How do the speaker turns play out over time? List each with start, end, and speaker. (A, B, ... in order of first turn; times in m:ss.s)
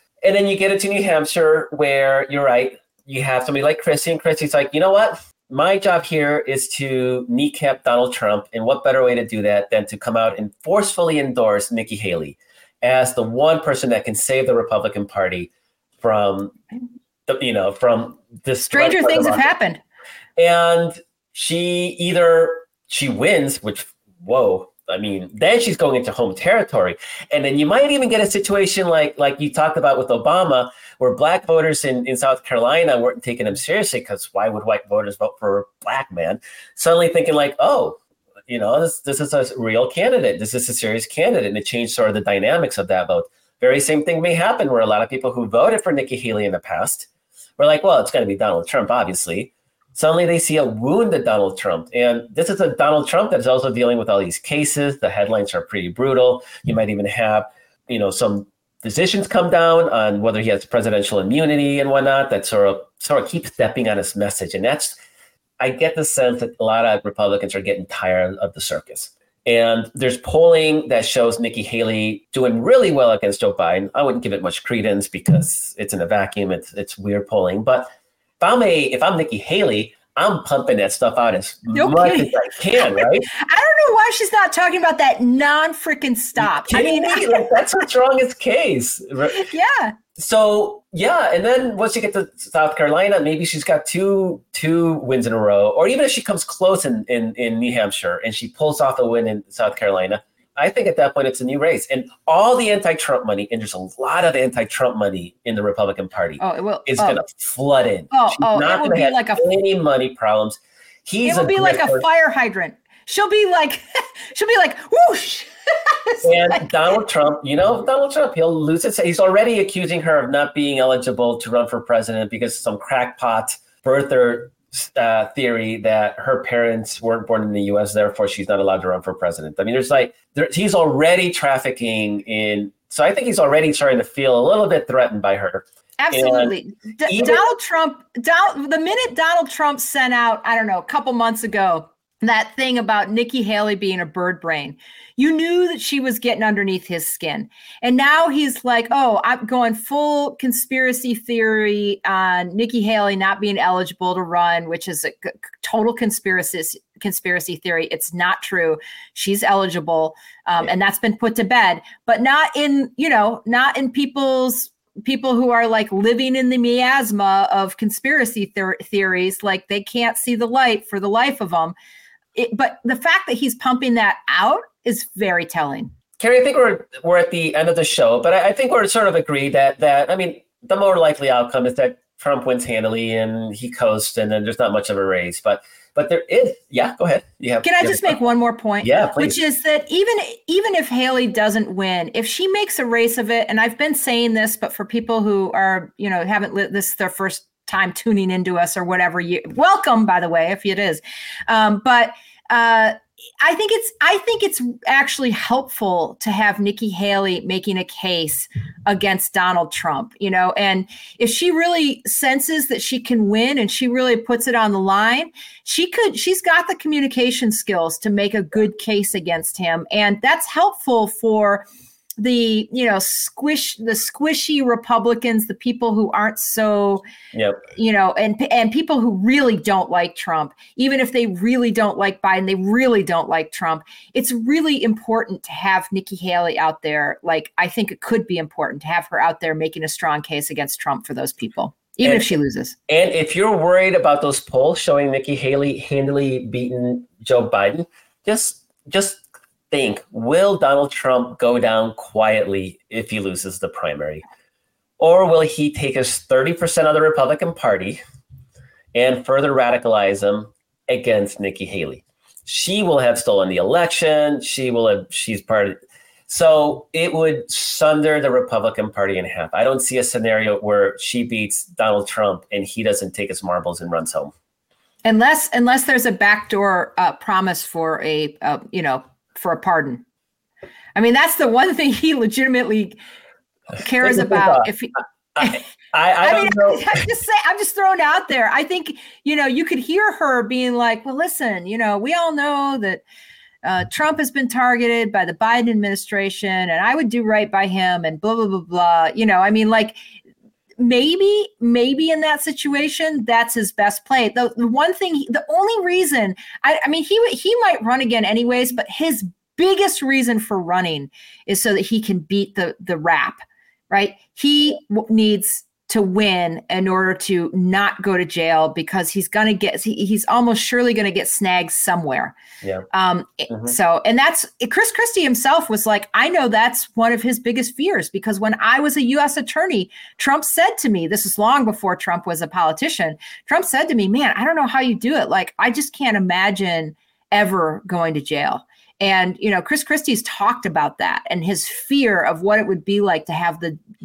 0:00.2-0:16.6 A
0:17.3-0:19.4 A
0:18.7-0:19.8 B
0:20.4-1:05.0 A
1:05.6-1:17.9 A
1:18.4-1:23.3 A
1:21.7-1:27.5 B
1:26.4-1:29.4 A
1:29.3-1:30.0 B
1:30.2-1:52.0 A
1:46.4-1:47.2 B
1:48.1-1:49.5 B
1:51.2-1:56.7 B
1:56.2-2:16.6 A
2:16.0-2:51.8 B
2:17.1-2:17.5 A
2:52.4-2:55.9 B
2:56.2-3:08.2 A
3:07.6-3:41.7 B
3:08.8-3:09.4 A
3:42.2-3:47.0 B
3:47.3-3:47.6 A
3:47.7-4:02.8 B
4:02.0-4:02.3 A
4:02.9-4:14.2 A
4:15.0-4:18.0 A
4:18.9-4:25.8 A
4:26.3-4:34.3 A
4:35.0-4:40.0 B
4:41.0-4:43.0 B
4:43.8-4:45.6 B
4:44.0-4:44.7 A
4:45.4-4:47.0 A
4:46.2-4:53.0 B
4:53.6-5:00.0 B
5:00.8-5:13.4 B
5:13.9-5:22.4 B
5:22.9-5:43.8 B
5:23.5-5:23.7 A